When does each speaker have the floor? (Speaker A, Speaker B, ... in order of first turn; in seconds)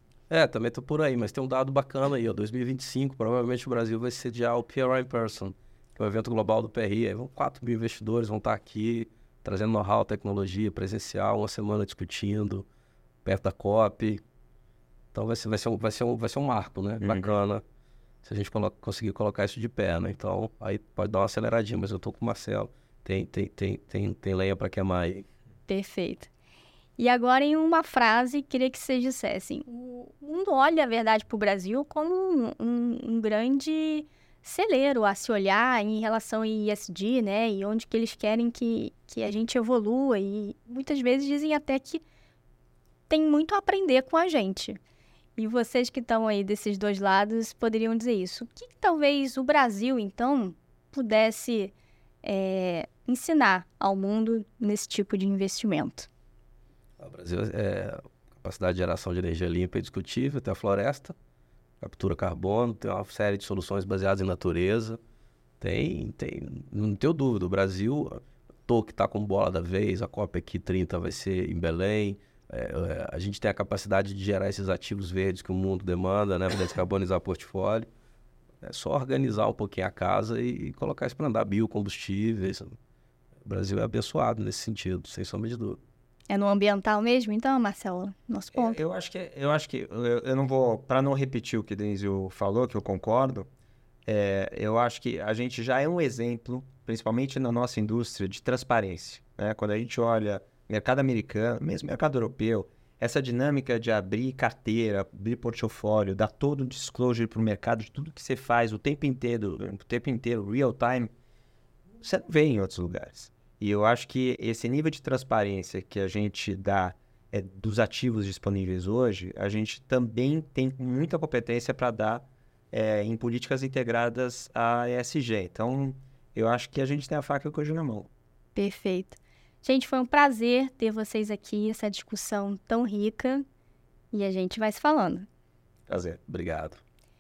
Speaker A: 0.3-12.7, 13.2-14.2, 15.1-17.6, 18.2-25.3, 57.0-61.1, 61.8-65.0, 65.6-77.9, 78.6-82.8, 83.5-85.8, 136.3-136.8
Speaker B: 17.0-17.3, 88.5-93.5, 94.1-111.1, 112.0-128.1, 135.9-136.2
Speaker C: 25.7-26.3, 27.0-42.0, 43.1-44.8, 45.4-56.1, 86.3-88.8, 128.6-133.4, 134.1-135.3